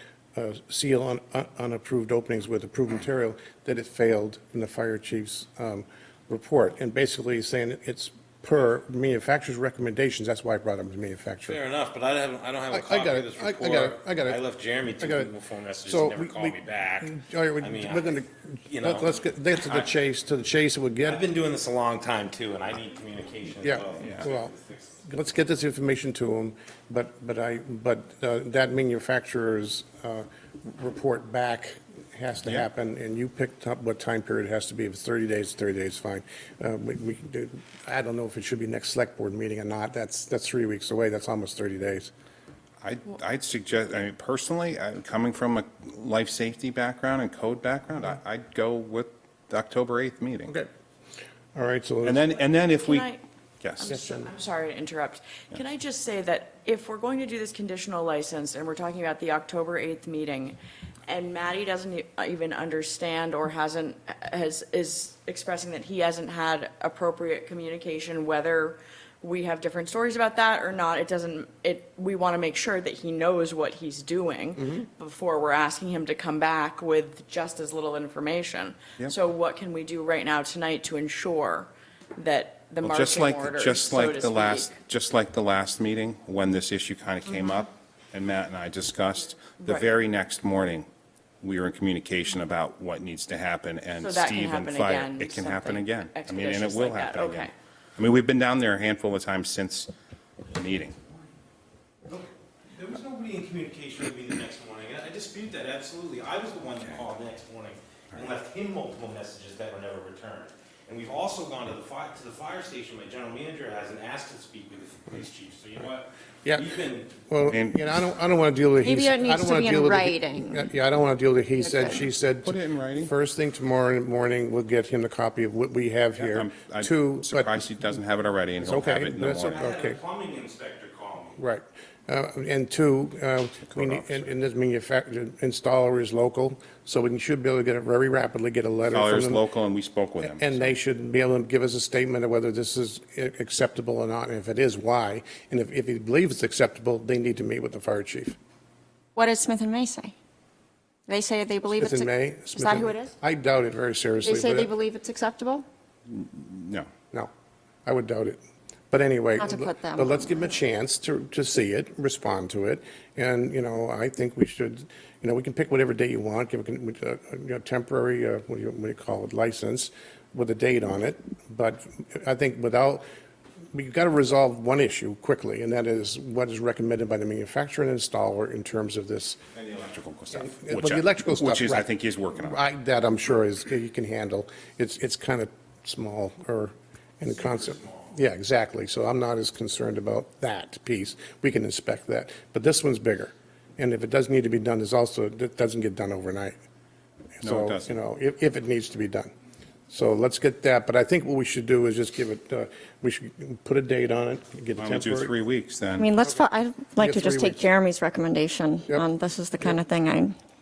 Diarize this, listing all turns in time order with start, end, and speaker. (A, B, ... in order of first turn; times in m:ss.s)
0:00.4-0:11.6 A
0:11.5-0:19.9 B
0:12.7-0:14.4 A
0:15.0-0:15.3 A
0:15.9-0:21.2 A
0:21.0-0:24.9 B
0:23.6-0:42.1 A
0:42.8-0:50.6 C
0:51.6-0:52.2 A
0:52.0-0:53.1 C
0:52.4-0:53.2 D
0:53.8-1:24.7 D
0:53.8-0:54.3 A
1:22.8-1:30.9 C
1:29.6-1:29.9 D
1:31.4-1:39.9 C
1:34.0-1:37.5 D
1:40.5-1:41.0 C
1:42.1-1:57.3 B
1:57.3-2:07.6 A
1:57.5-1:57.9 C
1:58.8-2:00.6 E
2:01.6-2:01.9 E
2:02.4-2:03.1 C
2:06.2-2:09.5 C
2:08.6-2:10.0 A
2:09.4-2:11.4 B
2:11.4-2:19.4 A
2:13.7-2:14.3 C
2:18.9-2:20.8 C
2:20.2-2:28.4 A
2:29.2-2:30.1 E
2:31.1-2:33.1 E
2:31.8-2:34.7 A
2:34.2-2:35.6 E
2:36.1-2:36.9 C
2:37.8-2:53.0 A
2:39.4-2:40.1 E
2:53.7-2:59.4 A
2:59.5-3:02.6 C
3:00.3-3:16.6 A
3:17.4-3:19.3 A
3:17.4-3:18.0 C
3:19.9-3:25.3 A
3:24.8-3:26.0 C
3:26.0-3:30.4 E
3:26.2-3:26.4 A
3:27.0-3:27.7 A